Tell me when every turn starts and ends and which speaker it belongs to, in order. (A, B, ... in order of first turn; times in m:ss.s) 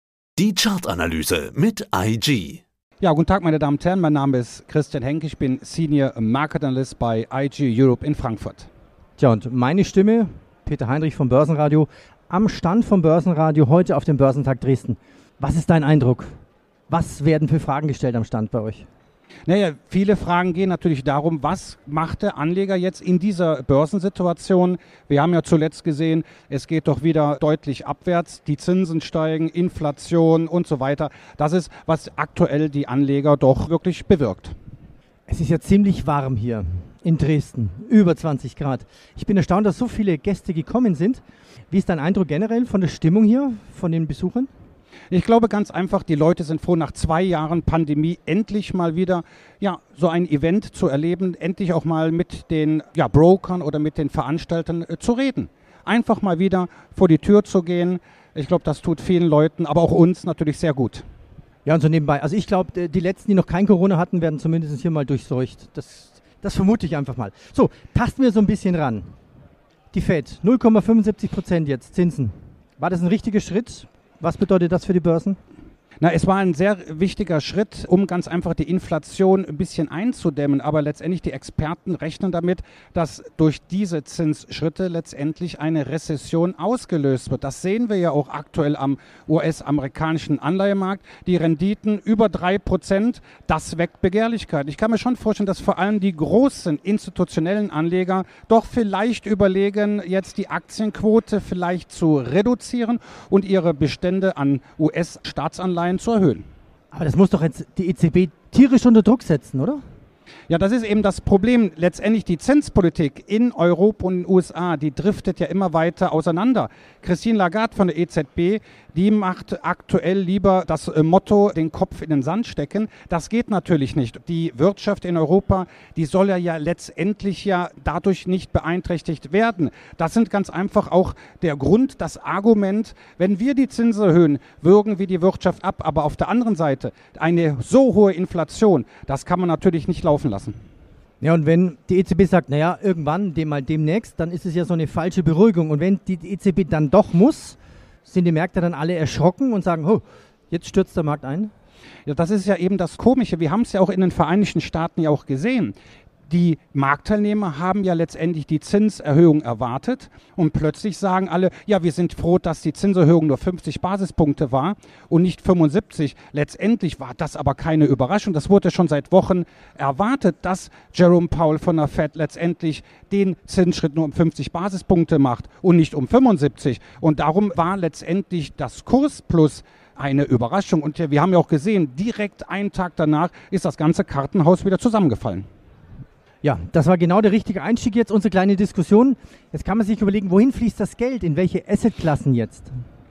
0:00.4-0:02.6 A
0:03.0-0:08.7 B
0:09.2-0:16.3 C
0:16.9-0:18.8 C
0:19.4-0:34.5 B
0:35.3-0:44.5 C
0:45.1-1:01.0 B
1:01.6-1:09.1 C
1:09.9-1:15.4 C
1:16.0-1:46.4 B
1:46.9-1:49.8 C
1:50.5-2:20.6 B
2:21.2-2:31.5 C
2:32.0-2:35.7 B
2:36.3-3:05.4 B
3:06.4-3:12.7 C